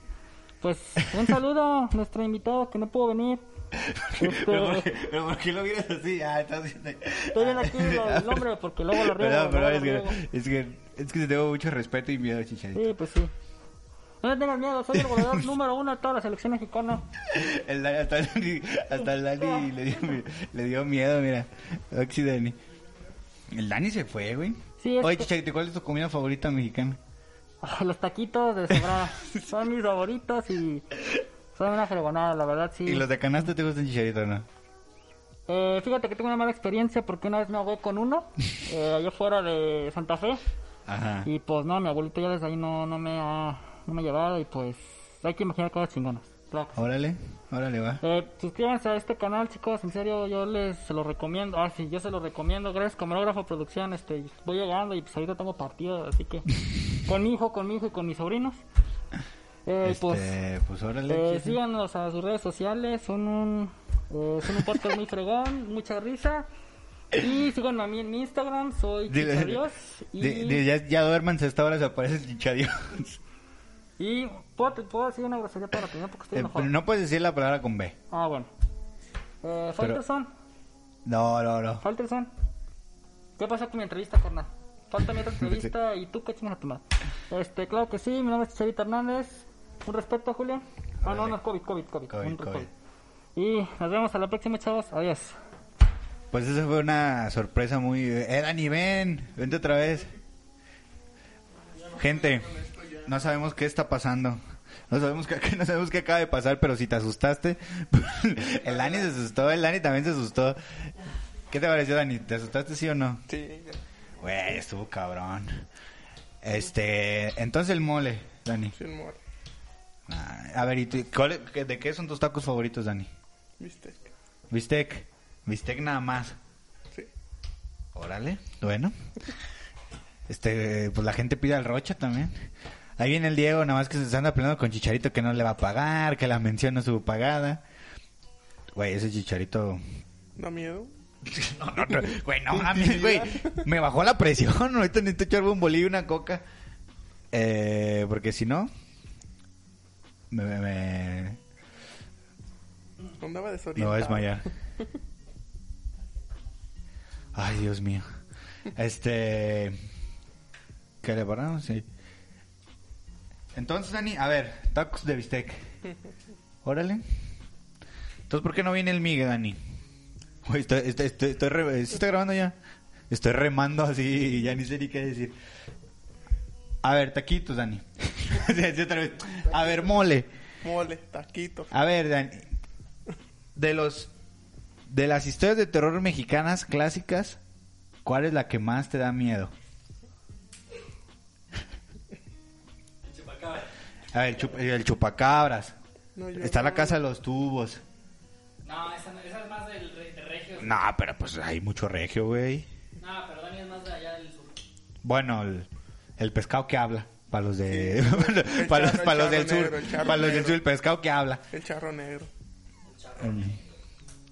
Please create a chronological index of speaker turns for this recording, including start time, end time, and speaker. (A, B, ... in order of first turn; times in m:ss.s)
0:00.6-0:03.4 A
0:01.0-0:01.4 B
0:03.7-0:13.0 B
0:04.2-0:04.9 A
0:07.3-0:10.2 A
0:12.8-0:13.3 A
0:14.2-0:17.0 A
0:14.9-0:15.5 B
0:17.2-0:22.6 B
0:23.5-0:27.0 B
0:24.8-0:25.3 A
0:27.6-0:33.1 A
0:32.8-0:34.5 B
0:35.5-0:40.4 A
0:40.9-0:41.3 B
0:41.2-0:46.8 A
0:46.8-0:48.0 B
0:48.0-0:58.6 A
0:59.7-1:00.3 A
0:59.8-1:01.6 B
1:01.1-1:06.5 A
1:07.1-1:10.6 A
1:09.1-1:09.7 B
1:10.2-1:13.2 B
1:14.0-1:16.7 A
1:16.3-1:18.0 B
1:18.1-1:18.5 A
1:19.4-1:20.3 A
1:21.0-1:21.8 B
1:21.8-1:22.3 A
1:23.4-1:32.7 A
1:25.4-1:25.7 B
1:31.0-1:31.4 B
1:32.1-1:32.7 B
1:33.4-1:35.4 A
1:36.3-1:40.1 B
1:41.8-1:43.2 C
1:41.9-1:50.6 B
1:48.6-1:49.1 C
1:51.5-1:53.2 B
1:53.3-1:53.8 C
1:54.2-1:55.6 B
1:56.4-1:58.8 B
1:58.7-1:59.2 C
2:00.1-2:03.1 B
2:03.6-2:04.1 C
2:04.5-2:06.4 B
2:07.9-2:08.9 B
2:10.3-2:12.3 B
2:13.0-2:17.6 B
2:18.8-2:19.8 B
2:20.4-2:20.9 C
2:21.2-2:26.4 B
2:21.9-2:23.6 C
2:27.3-2:28.7 B
2:30.3-2:31.4 B
2:33.2-2:34.5 C
2:33.8-2:34.5 B
2:37.3-2:38.0 B
2:38.7-2:39.8 B
2:41.0-2:41.9 B
2:43.5-2:45.7 B
2:46.6-2:47.0 B
2:48.3-2:49.6 B
2:50.4-2:52.6 B
2:53.1-2:55.4 B
2:56.8-3:00.3 B
2:59.5-2:59.9 C
3:00.6-3:01.7 C
3:01.7-3:02.5 B
3:03.6-3:04.1 B
3:04.9-3:07.4 B
3:08.0-3:09.5 B
3:13.0-3:13.7 D
3:14.1-3:15.8 B
3:16.2-3:17.0 C
3:16.4-3:17.8 B
3:18.6-3:20.8 D
3:20.6-3:22.7 B
3:23.0-3:24.6 D
3:25.0-3:31.4 B
3:27.7-3:30.6 C
3:31.5-3:32.3 C
3:32.9-3:33.6 D
3:33.2-3:33.6 B